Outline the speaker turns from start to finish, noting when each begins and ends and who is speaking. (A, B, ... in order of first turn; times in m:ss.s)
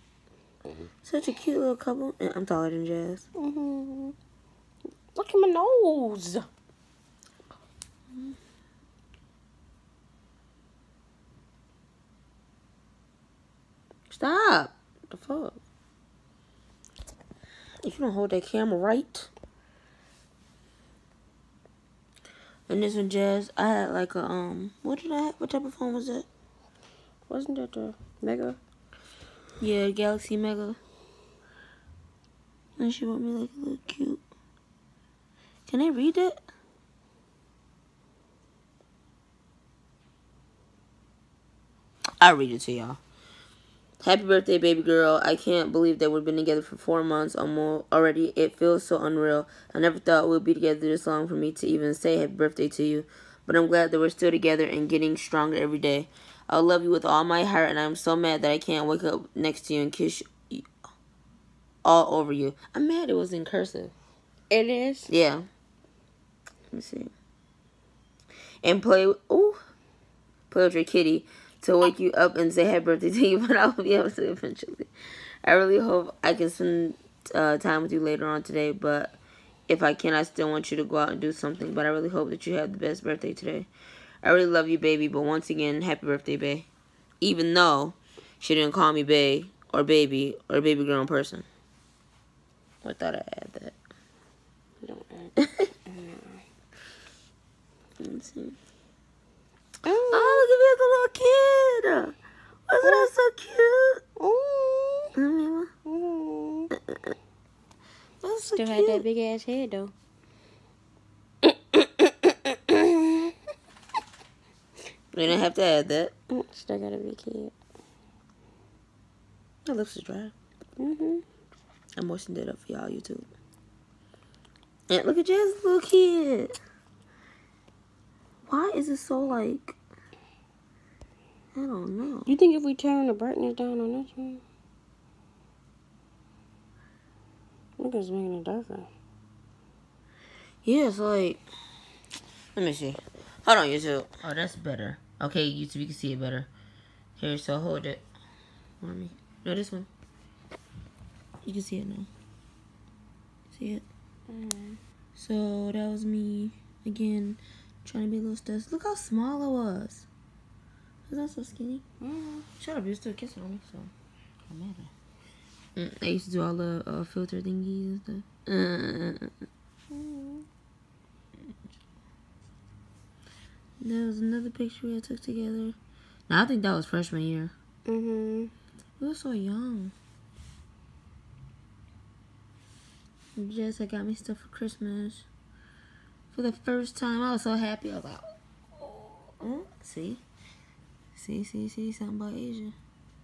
0:01.0-0:03.2 A
0:03.4-0:04.1 B
0:05.1-0:06.5 B
0:14.1-0:15.6 A
0:17.8-0:19.3 A
0:22.7-0:26.3 A
0:27.3-0:28.6 B
0:29.6-0:30.8 A
0:32.8-0:34.2 A
0:35.7-0:36.4 A
0:42.2-0:43.0 A
0:44.0-1:00.7 A
1:01.8-1:03.9 A
1:04.5-1:05.1 B
1:05.1-1:05.4 A
1:06.7-1:07.1 A
1:08.6-1:09.6 A
1:10.5-1:14.9 A
1:15.4-1:23.7 A
1:24.2-1:26.7 A
1:27.2-1:31.4 A
1:32.8-1:33.8 A
1:34.8-1:35.3 B
1:35.4-1:35.7 A
1:35.8-1:36.4 B
1:38.0-1:38.6 A
1:39.8-1:40.4 B
1:40.1-1:42.1 A
1:42.7-1:44.0 A
1:42.8-1:43.1 B
1:44.2-1:45.2 B
1:45.2-1:45.7 A
1:45.8-1:46.7 B
1:48.2-1:49.0 A
1:48.5-1:49.9 B
1:55.1-1:56.1 A
1:56.3-1:57.5 B
1:59.6-2:00.3 A
2:00.8-2:01.2 B
2:02.0-2:03.3 A
2:04.9-2:06.6 A
2:08.4-2:09.8 A
2:11.5-2:12.3 A
2:12.2-2:14.4 B
2:17.8-2:18.9 B
2:20.6-2:21.4 A
2:22.5-2:26.5 A
2:27.2-2:28.0 A
2:28.8-2:29.9 A
2:31.4-2:32.1 A
2:33.5-2:33.8 A
2:34.3-2:34.8 B
2:35.2-2:40.0 A
2:41.1-2:41.8 A
2:42.0-2:42.5 B
2:42.6-2:43.9 A
2:44.4-2:44.9 A
2:45.8-2:49.4 A
2:49.9-2:50.4 B
2:53.8-2:55.8 A
2:56.3-2:57.5 A
2:57.9-2:58.5 B
2:59.0-2:59.9 A
3:03.4-3:05.2 A
3:06.3-3:10.2 A
3:11.1-3:12.7 A